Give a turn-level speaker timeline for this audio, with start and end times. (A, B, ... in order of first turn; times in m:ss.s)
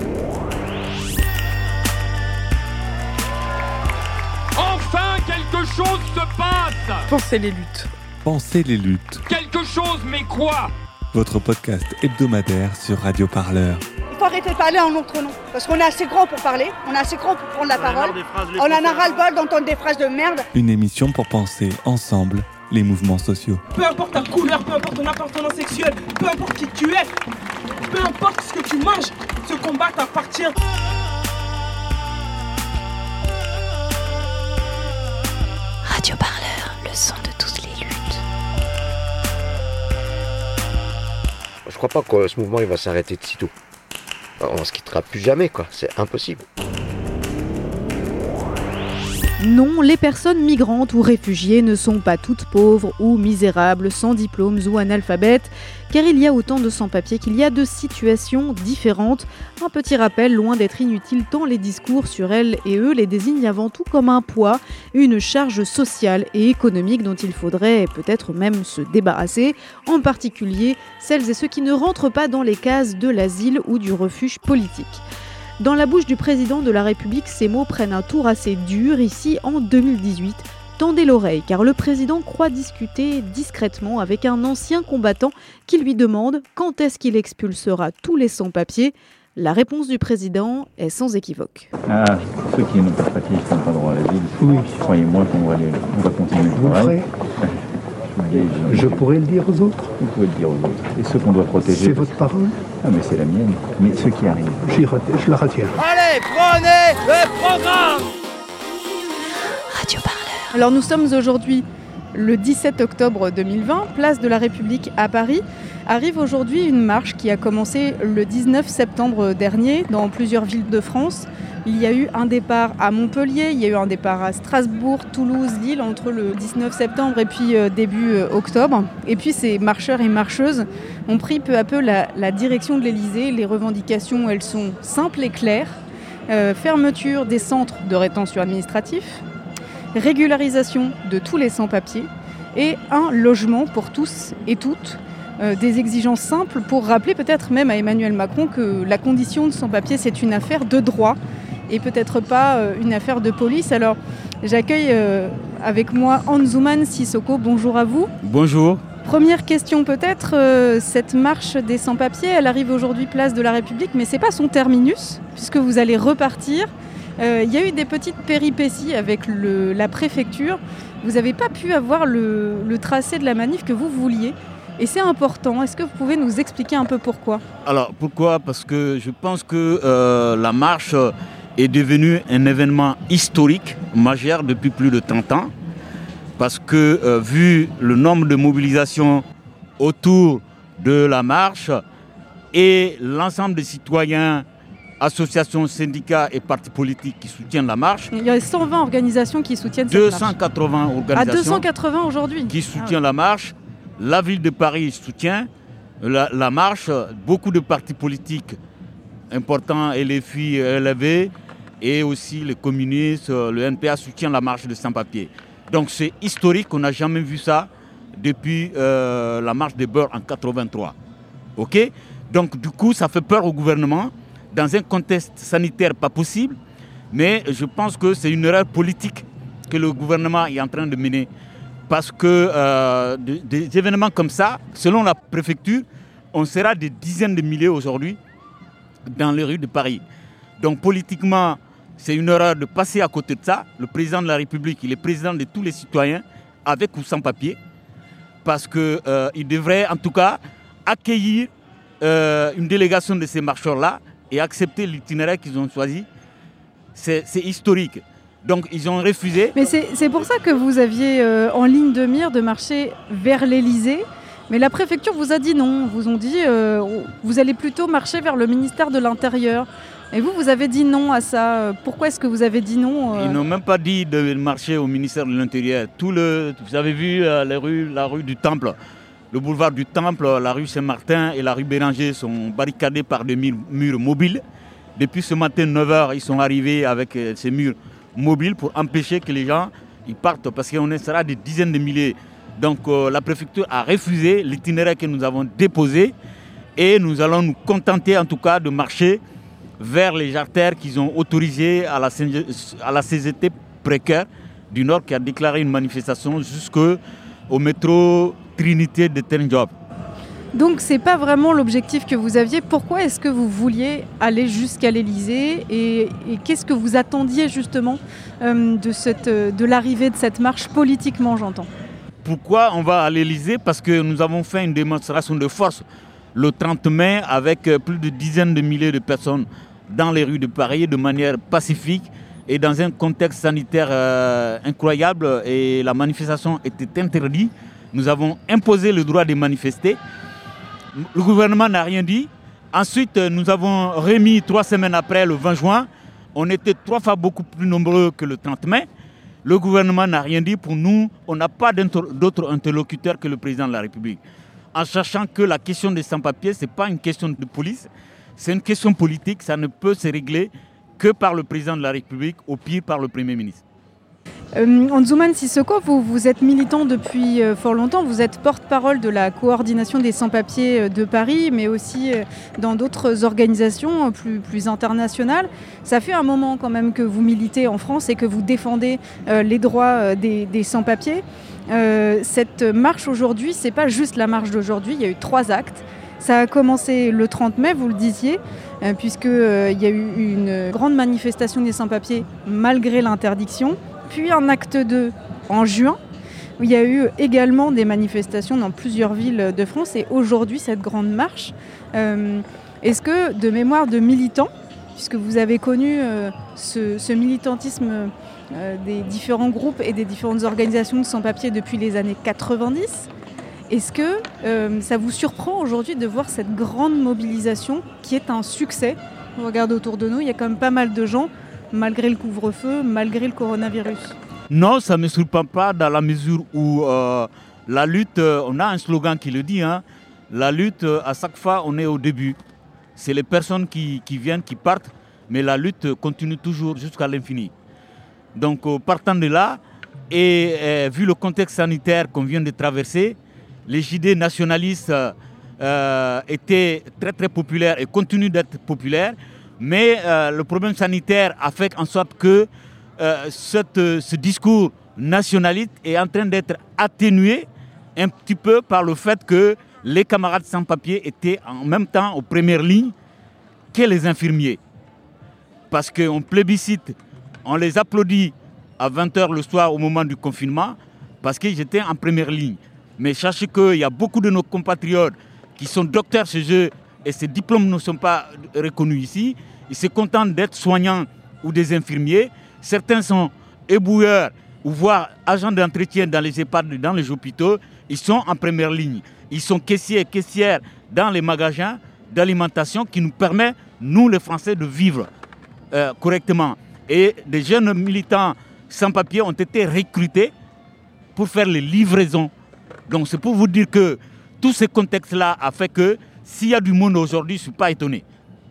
0:04.6-0:07.1 A
0:08.2-0:09.2 B
0:09.3-0:10.7 A
0:11.1-0:13.8 B
0:14.1-0:20.4 C
0:20.5-0:23.6 B
0:23.7-0:27.1 D
0:27.8-0:30.5 D
0:35.8-0:38.2 E
0:41.7-0:43.5 F
0:44.4-0:46.4 F
0:49.4-1:15.0 G
1:15.6-1:31.7 G
1:31.9-1:37.5 H
1:34.4-1:34.8 I
1:36.6-1:37.1 I
1:38.1-1:39.1 H
1:38.7-1:39.9 I
1:40.0-1:44.8 H
1:41.7-1:42.5 I
1:44.7-1:45.8 I
1:45.9-1:48.0 A
1:49.7-1:50.5 E
1:50.5-2:19.2 G
2:20.0-2:31.2 G
2:31.7-2:38.1 G
2:38.2-2:38.8 J
2:39.0-2:57.4 G
2:57.7-3:05.5 J
3:06.4-3:09.2 J
3:09.8-3:11.8 J
3:12.5-3:14.4 J
3:15.0-3:18.1 J
3:18.1-3:20.3 G
3:19.9-3:21.7 J
3:21.2-3:23.0 G
3:22.5-3:25.5 J
3:26.0-3:28.6 J
3:29.3-3:41.0 J
3:41.6-3:46.6 J
3:47.1-3:51.3 J
3:51.9-3:58.2 J
3:59.1-4:00.0 J
4:00.6-4:07.6 J
4:08.4-4:11.5 J
4:12.0-4:16.1 J
4:17.0-4:19.6 J
4:19.6-4:33.4 G
4:33.2-4:38.8 J
4:39.3-4:44.4 J
4:45.0-4:56.1 J
4:56.8-4:59.2 J
4:59.8-5:09.7 J
5:10.5-5:21.7 G
5:22.2-5:25.8 J
5:26.4-5:40.0 J
5:41.0-5:48.9 J
5:49.4-5:54.2 J
5:54.7-6:03.6 J
6:04.6-6:36.0 G
6:36.6-6:53.1 G
6:53.7-7:04.2 G
7:04.5-7:12.4 J
7:13.0-7:17.5 J
7:18.4-7:19.6 J
7:20.1-7:42.9 J
7:43.7-7:44.6 J
7:45.7-8:15.1 J
8:15.7-8:20.3 J
8:21.2-8:22.3 J
8:22.9-8:28.0 J